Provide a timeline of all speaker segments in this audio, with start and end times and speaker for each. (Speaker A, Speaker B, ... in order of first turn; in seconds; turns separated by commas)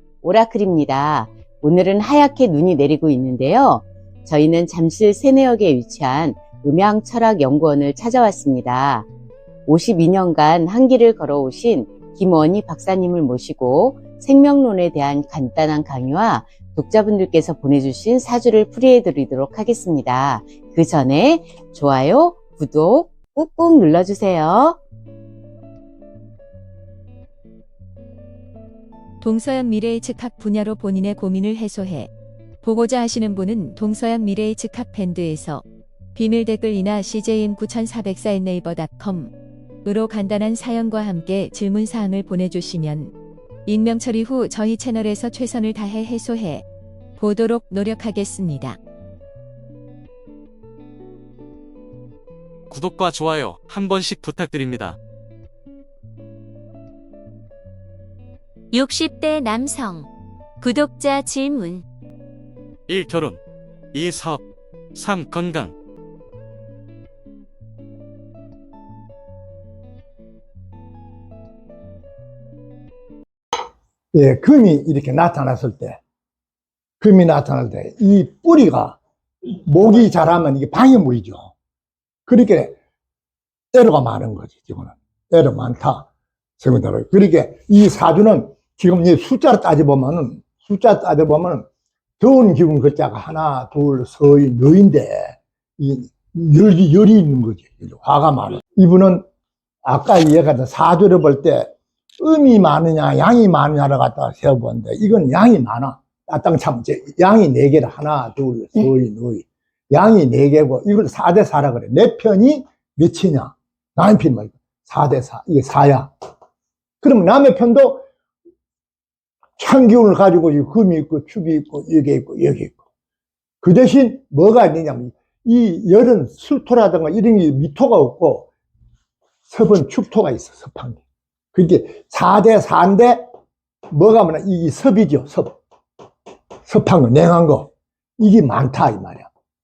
Speaker A: 0.2-9.1, Speaker A: 9.7-24.8, Speaker B: 29.2-32.1, Speaker B: 32.6-35.6, Speaker B: 36.1-39.3, Speaker B: 39.8-43.1, Speaker B: 43.7-46.6, Speaker B: 47.2-48.8, Speaker C: 52.7-55.0, Speaker D: 58.7-60.1, Speaker D: 60.6-61.9, Speaker C: 62.9-63.4, Speaker C: 63.9-65.8, Speaker E: 74.1-76.0, Speaker E: 77.0-81.5, Speaker E: 82.3-82.8, Speaker E: 83.7-91.7, Speaker E: 92.2-99.2, Speaker E: 99.8-116.1, Speaker E: 117.0-118.0, Speaker E: 119.6-122.8, Speaker E: 123.6-128.5, Speaker E: 129.5-131.0, Speaker E: 131.5-133.3, Speaker E: 133.9-135.6, Speaker E: 136.7-139.3